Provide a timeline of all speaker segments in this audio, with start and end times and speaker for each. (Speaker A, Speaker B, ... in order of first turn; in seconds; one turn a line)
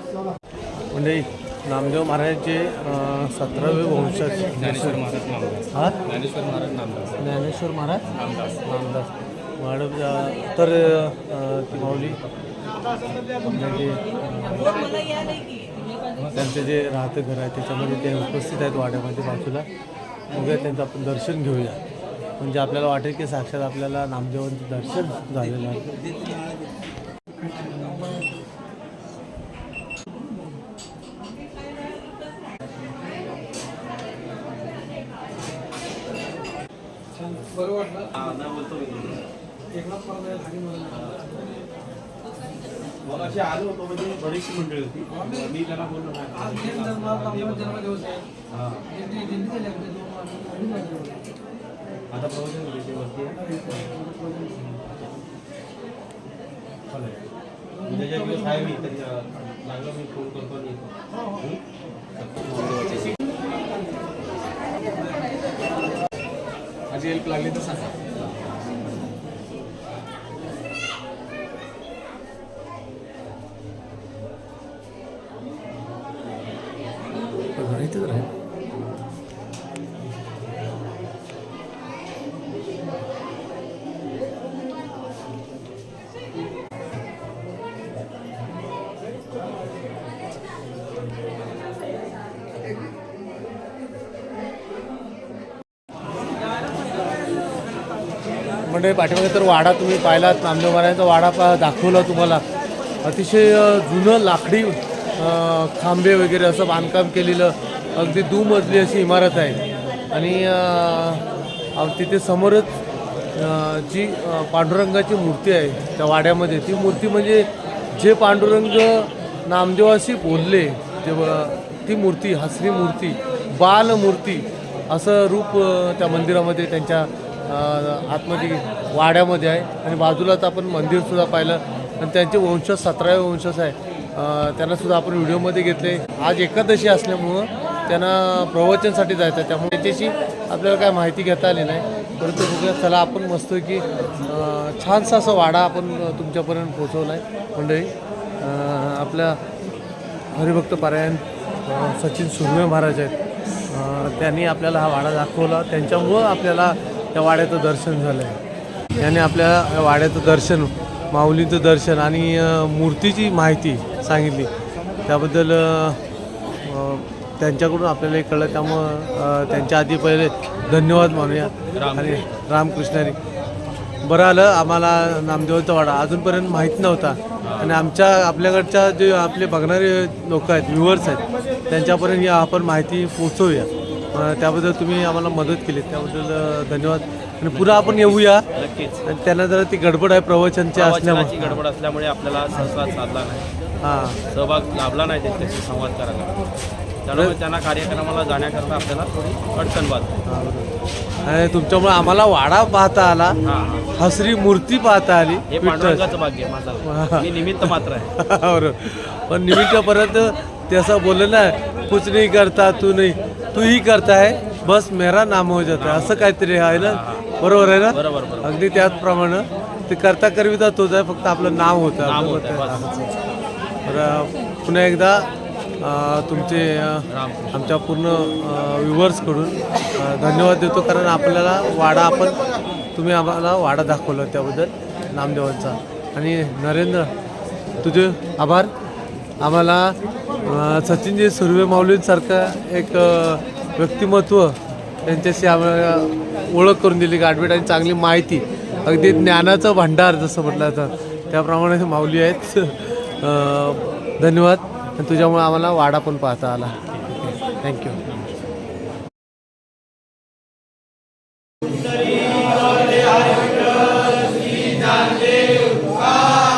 Speaker A: 0.9-5.0
Speaker B: 4.6-7.4
Speaker A: 7.2-8.1
Speaker B: 8.1-8.6
Speaker A: 8.7-12.2
Speaker C: 11.8-12.6
Speaker A: 13.5-14.8
Speaker A: 16.3-19.7
Speaker A: 20.3-21.8
Speaker A: 22.4-25.9
Speaker C: 38.1-39.3
Speaker C: 40.9-41.2
Speaker C: 43.0-48.0
Speaker C: 48.5-48.9
Speaker C: 52.1-53.9
Speaker C: 56.9-57.3
Speaker C: 57.8-61.6
Speaker C: 62.2-63.1
Speaker A: 77.6-78.3
Speaker A: 98.7-102.4
Speaker A: 103.0-109.6
Speaker A: 110.1-111.2
Speaker A: 111.8-112.7
Speaker A: 113.4-149.4
Speaker A: 150.3-153.2
Speaker A: 153.7-158.4
Speaker A: 159.0-164.5
Speaker A: 165.1-166.0
Speaker A: 166.6-173.2
Speaker C: 171.7-172.4
Speaker A: 174.0-188.5
Speaker C: 177.4-177.8
Speaker C: 187.5-189.1
Speaker A: 189.1-191.6
Speaker C: 190.7-193.5
Speaker A: 193.8-194.2
Speaker C: 194.3-196.4
Speaker C: 197.0-200.1
Speaker A: 200.3-200.7
Speaker A: 201.2-203.4
Speaker C: 203.4-203.9
Speaker A: 204.0-206.1
Speaker C: 205.5-208.1
Speaker A: 206.8-223.1
Speaker C: 215.7-217.3
Speaker C: 217.9-218.6
Speaker C: 222.0-222.9
Speaker A: 223.9-225.3
Speaker A: 225.8-232.4
Speaker C: 227.1-227.8
Speaker A: 232.9-237.1
Speaker A: 237.8-238.7
Speaker A: 239.4-258.0